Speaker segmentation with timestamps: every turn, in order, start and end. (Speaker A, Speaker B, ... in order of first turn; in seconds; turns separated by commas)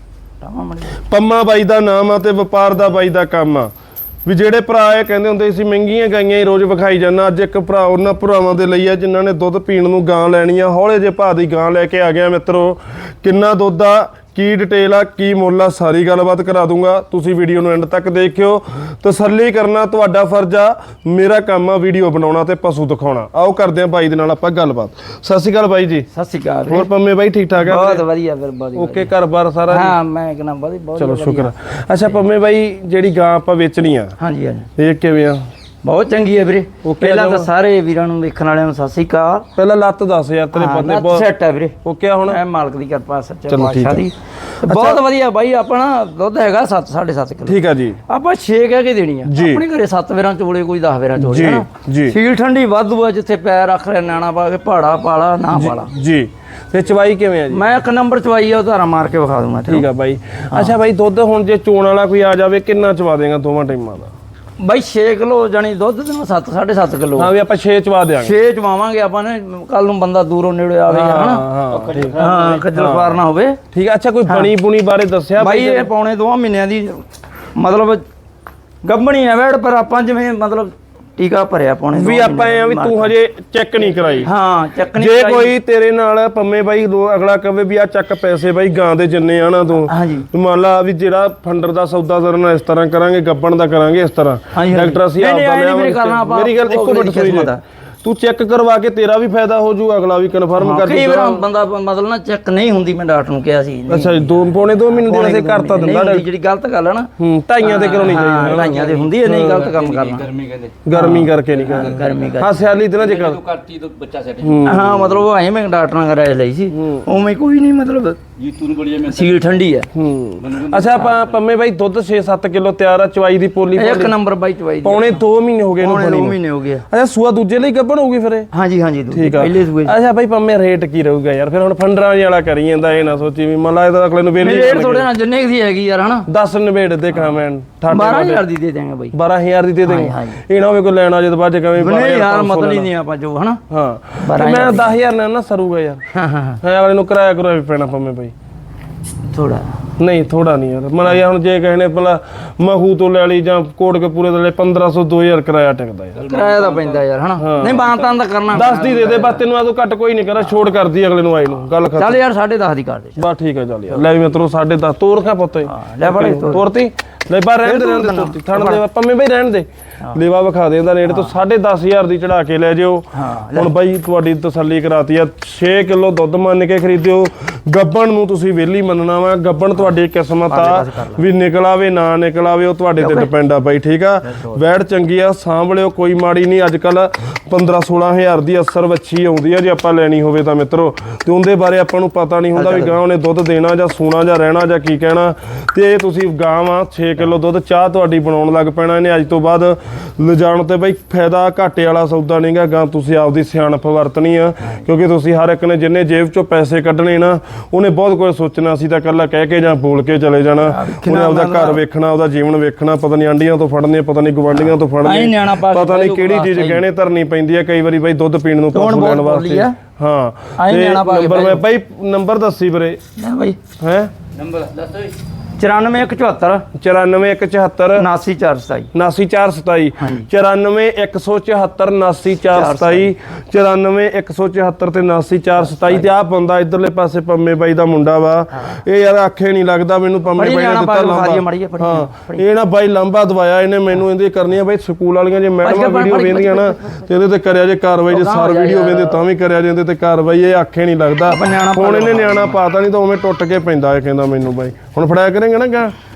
Speaker A: 0.4-1.0, Speaker B: 1.1-3.7, Speaker B: 4.2-26.1, Speaker A: 26.1-26.9, Speaker B: 26.7-28.1, Speaker A: 27.6-29.1, Speaker B: 28.8-30.0, Speaker A: 29.7-31.5, Speaker B: 31.0-34.1, Speaker A: 34.2-34.7, Speaker B: 34.8-35.4, Speaker A: 35.8-39.5, Speaker B: 36.8-37.5, Speaker B: 39.6-41.3, Speaker A: 40.5-41.8, Speaker B: 41.8-42.4, Speaker A: 42.3-55.9, Speaker B: 43.5-44.0, Speaker B: 44.6-45.0, Speaker B: 47.5-48.0, Speaker B: 49.3-49.6, Speaker B: 51.2-52.2, Speaker B: 55.5-57.7, Speaker A: 57.5-59.9, Speaker B: 59.7-64.1, Speaker A: 64.6-67.3, Speaker B: 67.2-68.4, Speaker A: 68.2-71.5, Speaker B: 70.9-72.2, Speaker C: 71.7-72.6, Speaker A: 72.1-73.6, Speaker B: 72.7-73.2, Speaker B: 73.7-75.9, Speaker A: 74.3-74.5, Speaker A: 75.4-78.0, Speaker A: 78.8-83.1, Speaker B: 82.0-84.3, Speaker A: 84.2-85.5, Speaker B: 85.0-101.5, Speaker A: 89.8-90.3, Speaker A: 94.5-97.6, Speaker A: 100.6-107.1, Speaker B: 103.9-106.3, Speaker B: 107.2-109.7, Speaker A: 107.6-110.3, Speaker C: 109.6-110.8, Speaker B: 110.8-113.5, Speaker A: 110.9-112.6, Speaker C: 113.1-114.6, Speaker B: 114.4-115.2, Speaker A: 114.6-118.2, Speaker B: 116.7-117.0, Speaker C: 118.5-119.2, Speaker A: 119.0-119.9, Speaker B: 119.9-124.2, Speaker C: 120.4-121.2, Speaker A: 123.8-125.2, Speaker B: 124.8-126.4, Speaker A: 125.8-126.8, Speaker B: 126.9-128.5, Speaker A: 128.5-130.0, Speaker B: 129.1-135.1, Speaker A: 134.4-136.3, Speaker B: 136.3-138.5, Speaker A: 137.9-139.1, Speaker B: 139.1-142.9, Speaker A: 139.8-140.4, Speaker A: 141.8-143.6, Speaker B: 143.7-146.0, Speaker A: 144.2-144.9, Speaker A: 146.1-146.6, Speaker B: 146.6-148.3, Speaker A: 149.3-149.8, Speaker B: 150.0-156.3, Speaker A: 156.2-159.4, Speaker C: 156.2-157.0, Speaker B: 157.4-157.9, Speaker B: 158.5-162.2, Speaker A: 161.9-163.2, Speaker B: 163.2-223.0, Speaker A: 165.7-166.7, Speaker A: 167.6-168.8, Speaker A: 171.1-171.3, Speaker A: 173.1-173.7, Speaker A: 180.5-181.3, Speaker A: 183.0-183.3, Speaker A: 184.3-184.6, Speaker A: 192.5-193.0, Speaker A: 210.7-211.8, Speaker A: 214.5-216.8, Speaker A: 218.7-219.8, Speaker A: 220.6-221.6, Speaker A: 223.2-223.6, Speaker B: 223.8-224.1, Speaker C: 224.4-225.1, Speaker A: 225.6-226.7, Speaker B: 226.8-228.1, Speaker A: 228.0-228.9, Speaker B: 228.9-255.9, Speaker A: 230.0-230.3, Speaker A: 232.5-233.1, Speaker A: 235.6-236.1, Speaker A: 240.3-242.4, Speaker A: 245.6-246.8, Speaker A: 248.1-249.2, Speaker A: 251.3-252.6